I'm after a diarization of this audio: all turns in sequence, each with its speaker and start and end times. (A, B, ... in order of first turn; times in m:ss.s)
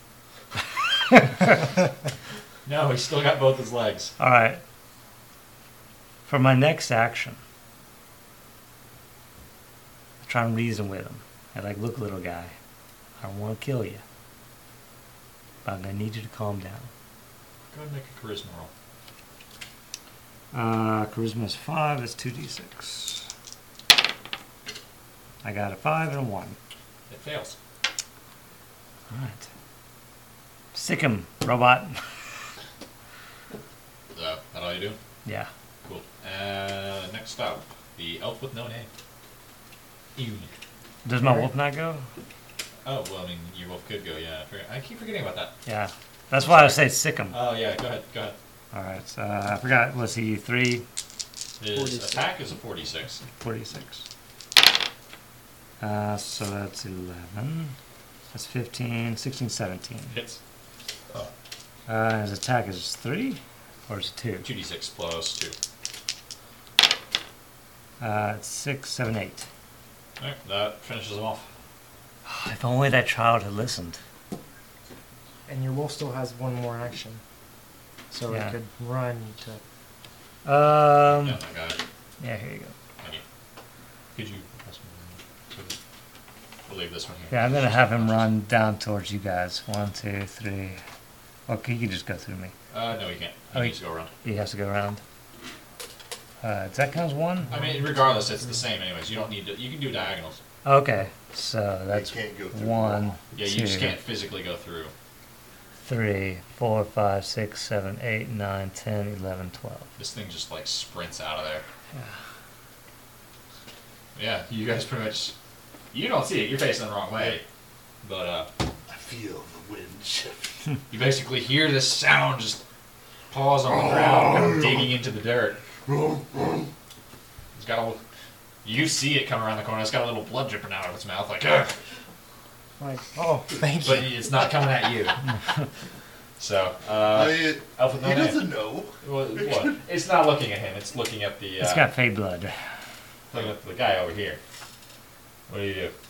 0:02.6-0:04.1 A
0:04.2-0:04.6 B
0:06.2-0:07.4 B
0:10.2-0:12.5 B
0:13.2-0:14.0 B
0:15.6-0:16.9 B
0:17.7-0:18.7 A
0:20.5-0:23.3 B
0:25.4-0:26.6 B
0:27.1-0:27.6 A
0:29.1-0:29.4 B
0:30.7-0:32.0 B
0:34.1-0:35.0 A
0:35.8-0:38.9 A
0:40.2-0:40.5 A
0:41.0-0:42.0 B
0:42.8-0:45.5 A
0:45.6-0:47.4 B
0:46.3-0:48.4 A
0:48.7-0:50.8 B
0:51.6-0:53.2 A
0:51.7-0:52.3 C
0:53.3-0:54.0 B
0:55.8-0:57.8 B
0:58.3-1:00.2 B
1:00.1-1:00.4 A
1:01.9-1:04.5 B
1:04.4-1:05.6 A
1:08.0-1:09.5 B
1:10.2-1:11.4 A
1:12.2-1:14.0 B
1:15.5-1:17.2 C
1:18.1-1:19.6 C
1:18.3-1:18.5 B
1:20.4-1:21.4 B
1:21.0-1:21.8 A
1:22.2-1:22.7 B
1:24.1-1:25.8 A
1:26.6-1:28.3 A
1:27.3-1:30.8 B
1:31.5-1:32.5 B
1:32.7-1:34.1 A
1:33.5-1:35.0 B
1:36.4-1:37.7 B
1:37.5-1:40.4 A
1:40.6-1:44.0 B
1:41.9-1:43.2 D
1:43.3-1:44.9 A
1:45.8-1:49.9 B
1:50.0-1:51.6 A
1:51.9-1:52.2 B
1:54.1-1:55.3 A
1:55.9-1:57.4 A
1:58.0-1:58.5 A
1:58.9-2:00.5 D
2:00.9-2:02.6 A
2:03.3-2:05.6 A
2:03.6-2:04.9 D
2:05.8-2:06.7 D
2:07.5-2:08.0 A
2:08.6-2:11.7 A
2:12.8-2:14.3 C
2:13.8-2:15.2 A
2:16.4-2:21.9 A
2:17.1-2:19.8 D
2:21.6-2:22.6 B
2:23.3-2:24.4 A
2:25.5-2:25.9 A